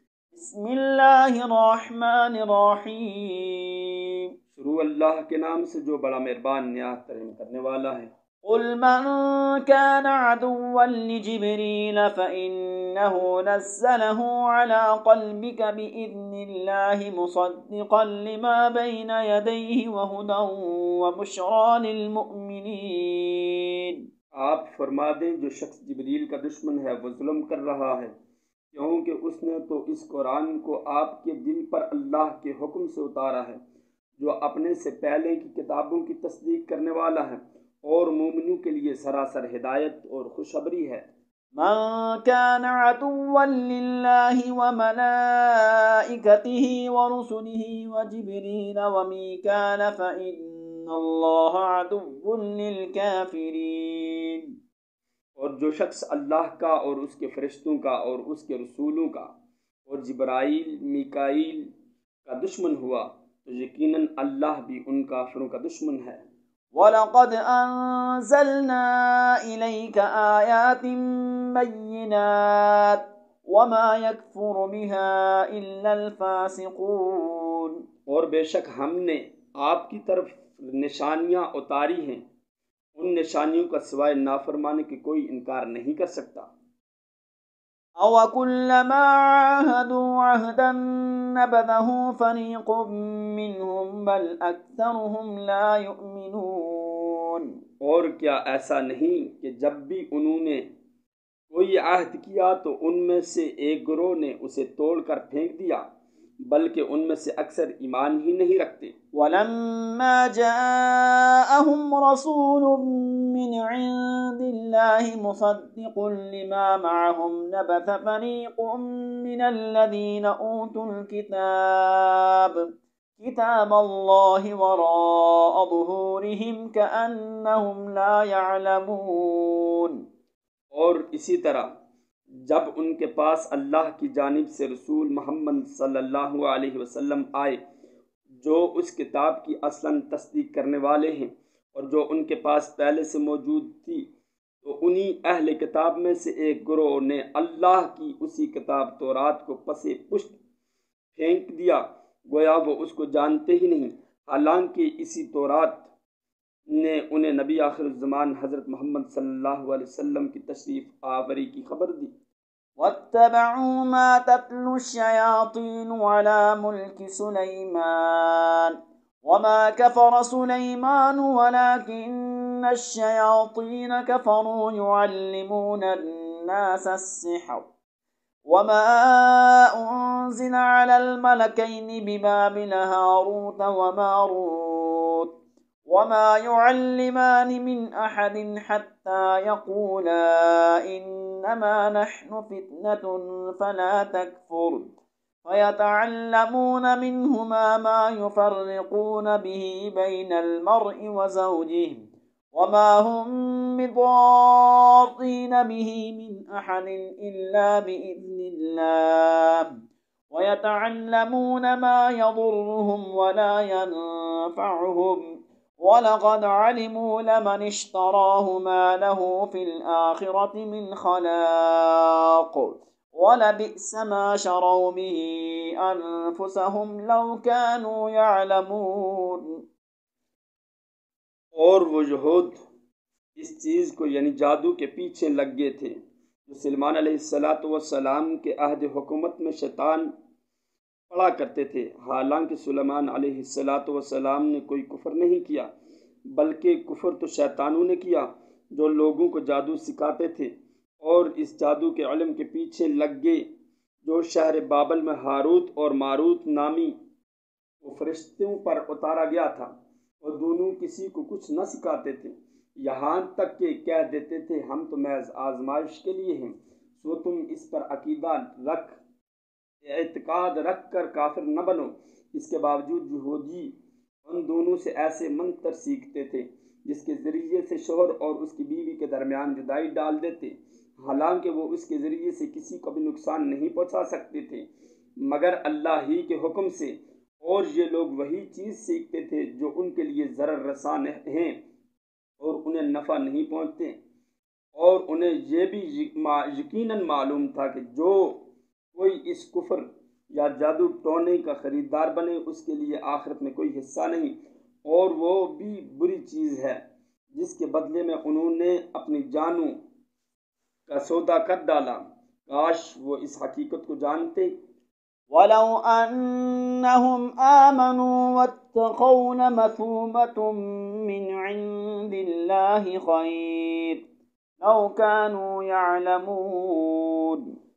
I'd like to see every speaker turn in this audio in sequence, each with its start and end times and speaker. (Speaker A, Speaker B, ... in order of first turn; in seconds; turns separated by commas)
Speaker A: 0.3-4.2, Speaker B: 4.5-8.1, Speaker A: 8.4-24.0, Speaker B: 24.3-28.1, Speaker B: 28.7-33.6, Speaker B: 34.2-41.0, Speaker A: 41.5-54.5, Speaker B: 55.4-59.3, Speaker B: 59.9-61.7, Speaker B: 62.2-66.2, Speaker A: 66.7-77.8, Speaker B: 78.1-82.2, Speaker B: 83.0-86.5, Speaker A: 88.0-97.5, Speaker B: 97.8-100.6, Speaker B: 101.5-105.8, Speaker B: 106.5-108.9, Speaker A: 109.1-130.0, Speaker B: 130.7-131.7, Speaker B: 132.4-137.6, Speaker B: 138.4-144.1, Speaker B: 144.6-150.3, Speaker B: 151.2-155.9, Speaker B: 156.7-162.1, Speaker A: 162.8-177.6, Speaker A: 178.5-185.3, Speaker A: 185.9-194.9, Speaker A: 195.4-209.7, Speaker A: 210.3-215.2, Speaker A: 215.8-229.5, Speaker B: 231.6-232.6, Speaker B: 233.4-235.9, Speaker B: 236.5-240.1, Speaker B: 241.1-245.7, Speaker B: 246.3-253.4, Speaker B: 254.0-256.9, Speaker B: 257.8-269.0, Speaker B: 269.8-273.7, Speaker B: 274.2-284.6, Speaker B: 285.2-291.6, Speaker B: 292.4-293.9, Speaker B: 294.8-298.4, Speaker B: 298.9-304.3, Speaker B: 304.9-306.8, Speaker B: 307.3-309.7, Speaker B: 310.9-314.5, Speaker A: 315.3-324.0, Speaker A: 324.6-327.5